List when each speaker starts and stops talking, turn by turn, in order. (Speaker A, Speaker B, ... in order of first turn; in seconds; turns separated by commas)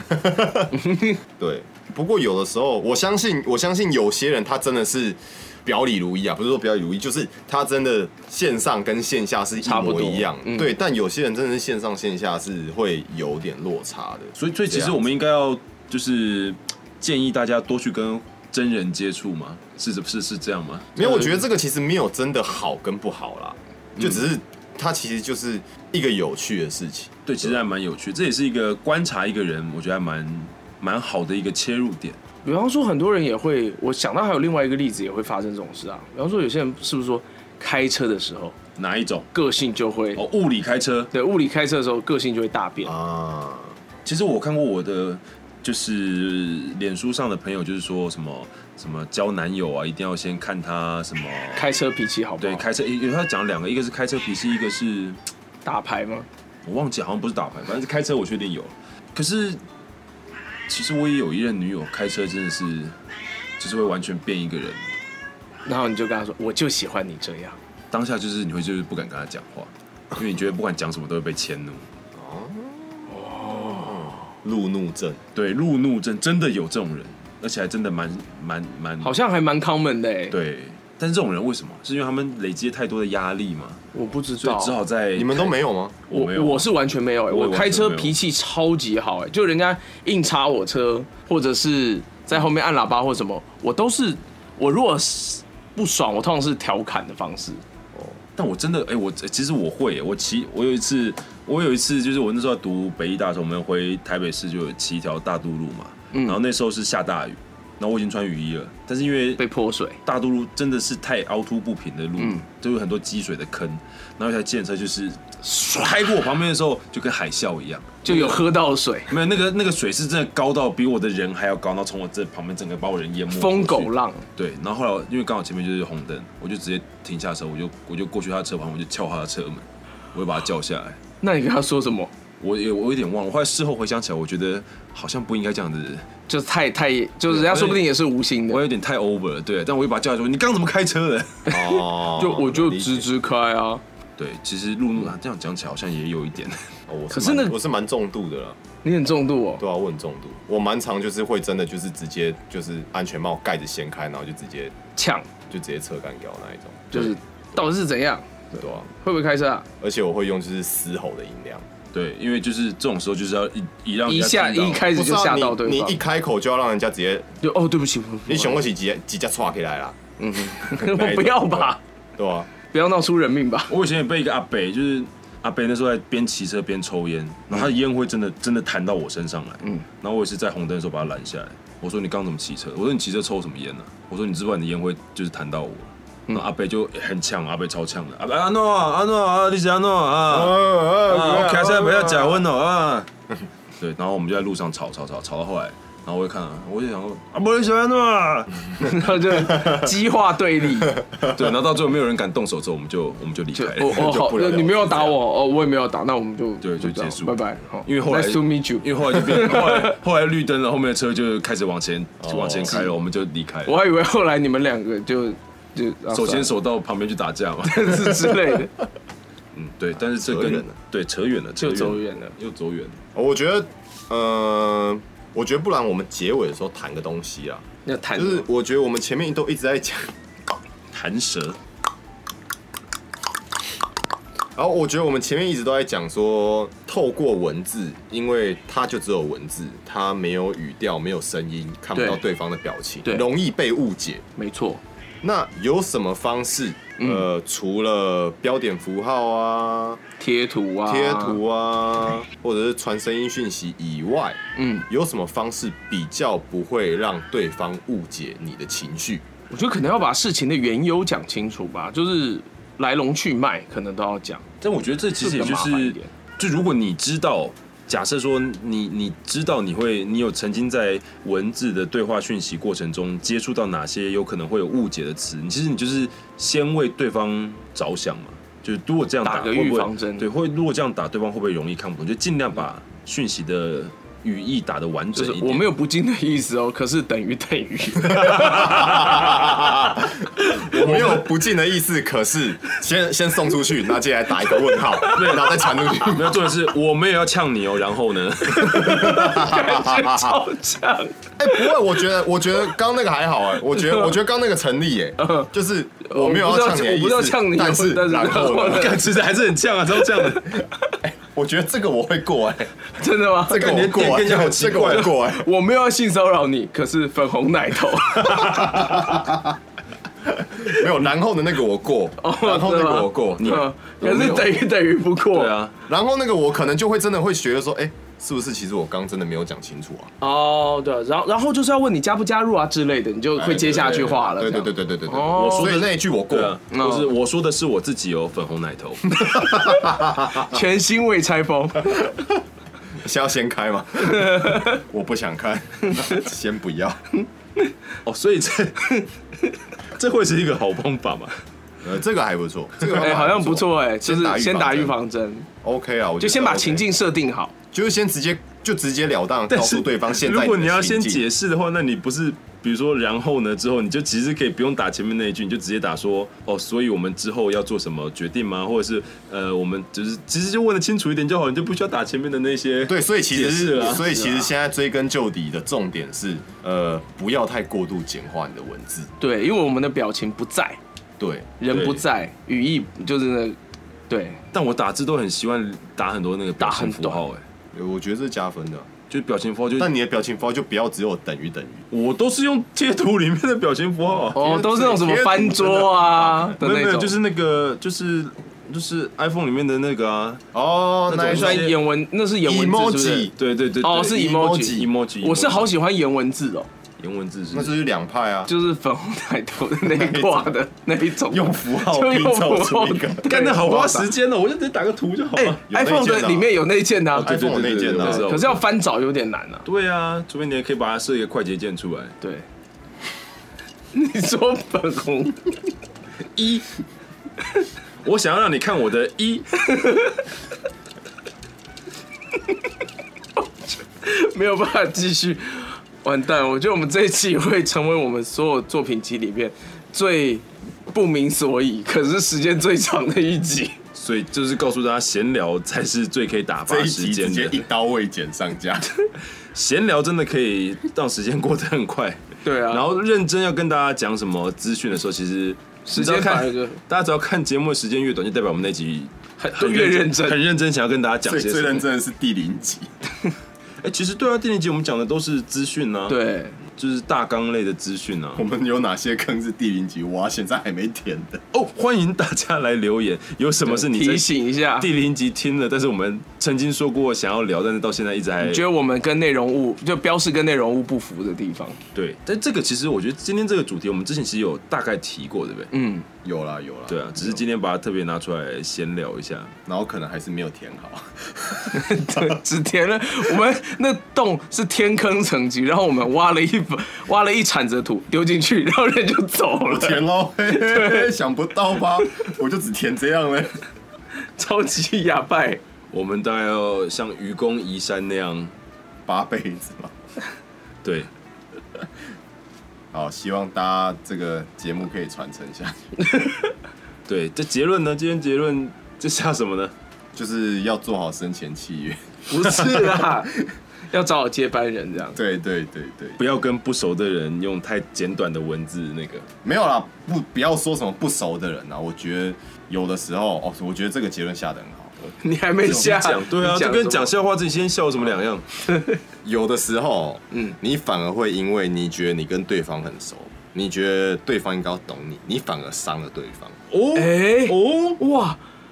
Speaker A: 0.1-0.7, Speaker B: 0.7-1.2, Speaker A: 1.4-15.0, Speaker B: 9.6-10.8, Speaker C: 14.4-20.9, Speaker A: 21.0-27.6, Speaker B: 21.0-21.3, Speaker C: 24.0-24.2, Speaker C: 27.3-32.2, Speaker B: 32.4-38.6, Speaker C: 38.8-39.3, Speaker B: 39.3-40.2, Speaker C: 40.2-41.1, Speaker B: 41.1-42.9, Speaker A: 42.8-43.8, Speaker C: 44.0-51.7, Speaker B: 51.5-52.6, Speaker C: 52.4-55.2, Speaker B: 55.6-56.3, Speaker C: 56.6-59.6, Speaker C: 60.7-63.0, Speaker C: 63.6-64.9, Speaker B: 65.7-67.6, Speaker C: 67.9-71.9, Speaker A: 72.1-73.1, Speaker B: 73.1-74.3, Speaker A: 73.7-75.2, Speaker C: 75.3-79.2, Speaker B: 79.0-80.4, Speaker C: 80.3-83.8, Speaker B: 83.9-84.7, Speaker C: 84.4-85.5, Speaker A: 85.2-86.0, Speaker B: 86.1-97.6, Speaker C: 86.1-86.7, Speaker C: 87.3-88.2, Speaker A: 97.9-98.2, Speaker C: 98.4-109.4, Speaker B: 106.1-106.4, Speaker B: 109.4-110.0, Speaker C: 110.0-118.5, Speaker B: 112.2-112.4, Speaker B: 118.0-119.1, Speaker C: 119.1-131.0, Speaker B: 123.3-124.3, Speaker B: 131.2-132.1, Speaker C: 132.4-136.1, Speaker B: 136.3-138.6, Speaker C: 137.3-137.9, Speaker C: 138.5-141.6, Speaker B: 141.5-143.8, Speaker A: 141.5-143.1, Speaker C: 144.2-146.6, Speaker A: 146.9-148.6, Speaker B: 147.1-147.6, Speaker B: 148.8-149.6, Speaker A: 149.6-154.8, Speaker B: 155.0-155.3, Speaker A: 155.5-157.1, Speaker B: 156.9-159.7, Speaker A: 158.6-158.9, Speaker A: 159.8-161.7, Speaker C: 161.9-164.9, Speaker B: 164.1-166.0, Speaker A: 164.9-167.3, Speaker B: 167.4-168.6, Speaker A: 168.3-170.0, Speaker B: 170.2-171.8, Speaker A: 170.5-172.5, Speaker B: 172.7-173.7, Speaker C: 173.7-193.1, Speaker A: 190.3-192.4, Speaker C: 193.8-199.1, Speaker B: 198.8-201.0, Speaker C: 201.2-204.1, Speaker B: 203.6-210.0, Speaker A: 203.8-205.2, Speaker C: 206.6-213.8, Speaker A: 212.2-212.8, Speaker B: 212.7-212.9, Speaker B: 213.7-216.5, Speaker C: 216.1-218.3, Speaker B: 217.6-218.7, Speaker C: 219.5-223.0, Speaker A: 220.1-220.7, Speaker B: 221.6-222.3, Speaker A: 223.2-227.7, Speaker B: 227.8-228.5, Speaker A: 228.2-230.1, Speaker C: 230.9-231.6, Speaker A: 234.6-244.2, Speaker B: 242.0-242.2, Speaker B: 244.4-244.8, Speaker A: 245.2-250.0, Speaker B: 247.0-247.3, Speaker B: 250.2-251.4, Speaker A: 250.9-259.2, Speaker B: 254.6-254.9, Speaker B: 259.5-264.4, Speaker C: 264.6-285.7, Speaker B: 265.2-266.1, Speaker B: 279.2-280.3, Speaker B: 285.1-289.8, Speaker A: 288.3-296.5, Speaker C: 288.3-289.1, Speaker B: 290.4-290.9, Speaker C: 290.8-291.2, Speaker B: 294.7-295.4, Speaker C: 295.1-299.3, Speaker B: 298.5-301.8, Speaker A: 298.9-300.4, Speaker A: 301.4-309.0, Speaker B: 303.8-304.1, Speaker B: 305.2-305.5, Speaker B: 306.0-309.0, Speaker C: 308.4-310.6, Speaker B: 310.0-310.6, Speaker A: 311.0-312.7, Speaker B: 313.0-313.8, Speaker A: 313.5-315.5, Speaker C: 313.5-315.2, Speaker B: 315.2-319.2, Speaker A: 318.2-319.6, Speaker A: 320.3-324.5, Speaker B: 322.2-325.5, Speaker C: 323.4-324.6, Speaker C: 325.3-325.8, Speaker A: 325.9-330.1, Speaker B: 330.2-335.8, Speaker A: 333.4-336.6, Speaker C: 333.6-334.3, Speaker C: 335.3-339.3, Speaker B: 336.7-337.1, Speaker A: 339.2-340.6, Speaker B: 339.3-342.1, Speaker A: 343.0-347.1, Speaker B: 344.0-344.8, Speaker C: 348.1-349.0, Speaker C: 349.9-351.4, Speaker A: 351.8-355.0, Speaker B: 352.9-355.5, Speaker A: 355.6-356.9, Speaker B: 356.2-357.5, Speaker A: 357.7-361.2, Speaker C: 359.5-374.4, Speaker A: 372.9-379.1, Speaker B: 379.2-380.8, Speaker A: 381.2-381.5, Speaker B: 381.6-383.6, Speaker C: 381.7-382.1, Speaker B: 384.1-384.4, Speaker C: 384.5-387.4, Speaker B: 386.6-387.2, Speaker A: 387.7-388.9, Speaker C: 389.1-389.9, Speaker A: 389.8-391.9, Speaker C: 391.9-394.4, Speaker A: 394.1-396.6, Speaker B: 394.4-397.1, Speaker C: 396.6-400.4, Speaker A: 400.5-401.7, Speaker C: 401.1-401.8, Speaker B: 401.3-403.3, Speaker A: 402.4-403.3, Speaker C: 403.4-405.7, Speaker B: 403.8-406.7, Speaker A: 404.1-404.9, Speaker C: 407.0-407.7, Speaker A: 407.5-408.5, Speaker B: 408.5-414.1, Speaker A: 409.8-410.6, Speaker A: 411.2-413.8, Speaker C: 413.2-415.6, Speaker B: 415.4-417.4, Speaker A: 415.7-416.5, Speaker C: 417.1-418.6, Speaker A: 417.1-418.3, Speaker B: 417.9-419.7, Speaker C: 419.7-422.2, Speaker B: 422.2-422.5, Speaker B: 423.9-425.5, Speaker C: 426.3-426.7, Speaker C: 428.0-429.7, Speaker B: 429.6-430.2, Speaker B: 433.4-443.8, Speaker C: 443.9-447.6, Speaker A: 446.7-448.9, Speaker C: 449.5-461.9, Speaker B: 452.4-452.8, Speaker B: 455.9-456.8, Speaker B: 459.4-460.4, Speaker A: 461.2-462.9, Speaker C: 463.8-466.2, Speaker B: 466.1-466.6, Speaker C: 466.8-468.4, Speaker A: 468.4-471.4, Speaker C: 471.5-478.6, Speaker B: 473.6-474.9, Speaker B: 478.4-481.8, Speaker C: 481.9-485.7, Speaker B: 485.7-486.1, Speaker A: 486.2-487.4, Speaker C: 486.9-489.5, Speaker A: 489.7-492.4, Speaker B: 491.7-501.1, Speaker A: 499.7-503.6, Speaker B: 504.4-505.6, Speaker C: 505.9-508.5, Speaker A: 509.1-509.9, Speaker C: 510.8-511.1, Speaker A: 512.9-515.8, Speaker C: 517.1-519.7, Speaker A: 520.1-523.5, Speaker B: 522.3-523.3, Speaker B: 523.9-525.2, Speaker A: 525.1-526.2, Speaker C: 526.2-529.3, Speaker A: 529.4-535.1, Speaker B: 535.2-537.1, Speaker C: 535.6-538.5, Speaker B: 538.7-539.0, Speaker A: 539.2-546.6, Speaker C: 546.7-548.0, Speaker B: 547.0-548.4